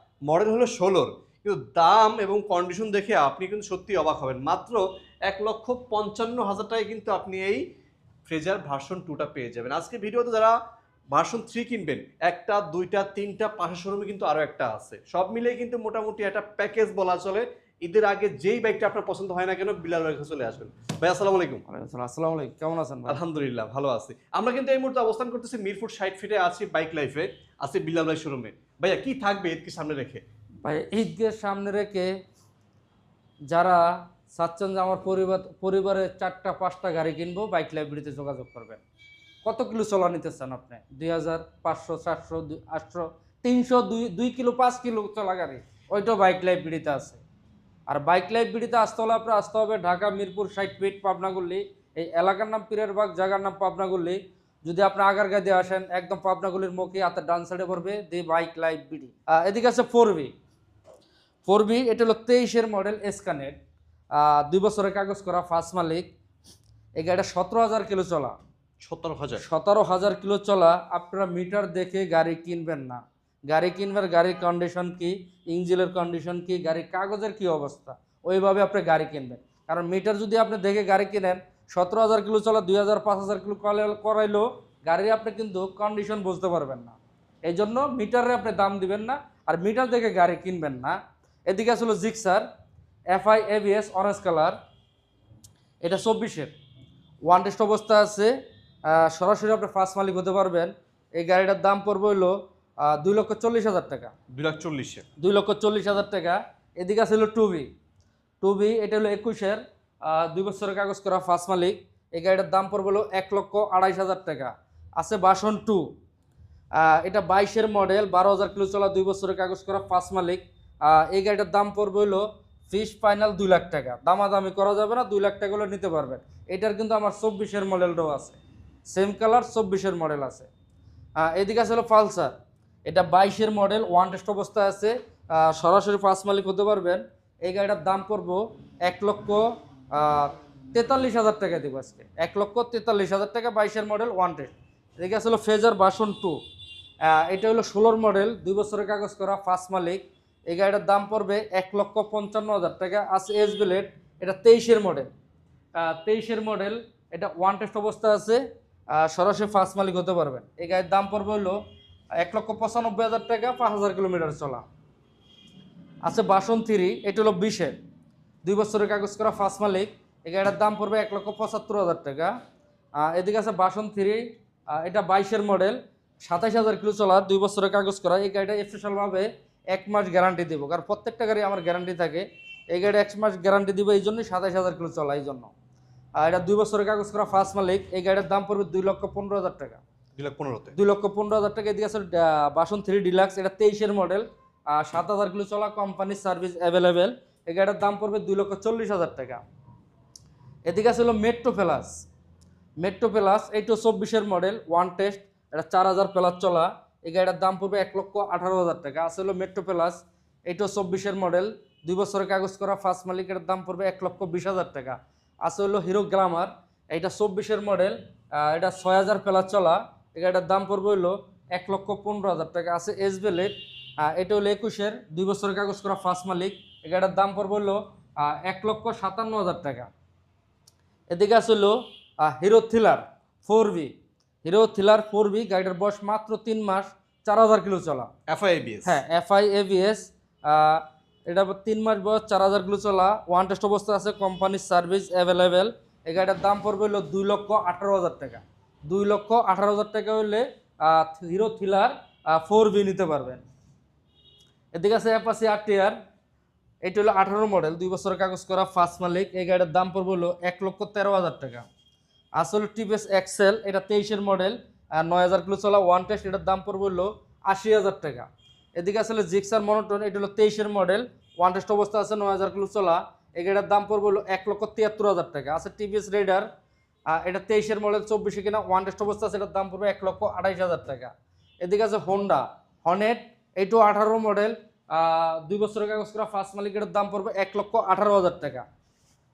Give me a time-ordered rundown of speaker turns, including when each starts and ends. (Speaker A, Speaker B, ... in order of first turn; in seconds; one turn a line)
Speaker A: 0.3-7.6
Speaker A: 8.3-10.6
Speaker A: 11.1-21.6
Speaker B: 21.7-23.2
Speaker A: 23.1-30.2
Speaker B: 30.6-32.1
Speaker B: 33.5-38.8
Speaker B: 39.4-47.2
Speaker B: 47.9-60.3
Speaker B: 61.5-63.6
Speaker B: 64.2-66.1
Speaker B: 67.0-68.3
Speaker A: 68.8-69.5
Speaker B: 69.4-92.5
Speaker B: 93.1-94.6
Speaker B: 95.8-96.5
Speaker B: 97.3-98.3
Speaker B: 98.9-104.1
Speaker A: 104.3-105.1
Speaker B: 105.2-107.7
Speaker B: 108.4-115.9
Speaker B: 116.8-130.5
Speaker B: 131.2-132.3
Speaker B: 132.9-146.4
Speaker B: 147.1-155.1
Speaker B: 155.8-158.4
Speaker B: 158.9-161.6
Speaker B: 162.2-164.7
Speaker B: 166.1-167.8
Speaker B: 168.4-172.3
Speaker B: 173.0-174.2
Speaker B: 174.7-185.5
Speaker B: 186.2-189.8
Speaker A: 190.2-190.8
Speaker B: 190.8-199.4
Speaker B: 200.7-201.9
Speaker B: 202.8-229.9
Speaker B: 231.1-233.9
Speaker B: 234.4-238.1
Speaker A: 238.3-239.0
Speaker B: 238.9-253.4
Speaker B: 254.7-255.9
Speaker B: 256.8-261.6
Speaker B: 262.4-276.5
Speaker B: 277.1-281.1
Speaker B: 281.6-288.6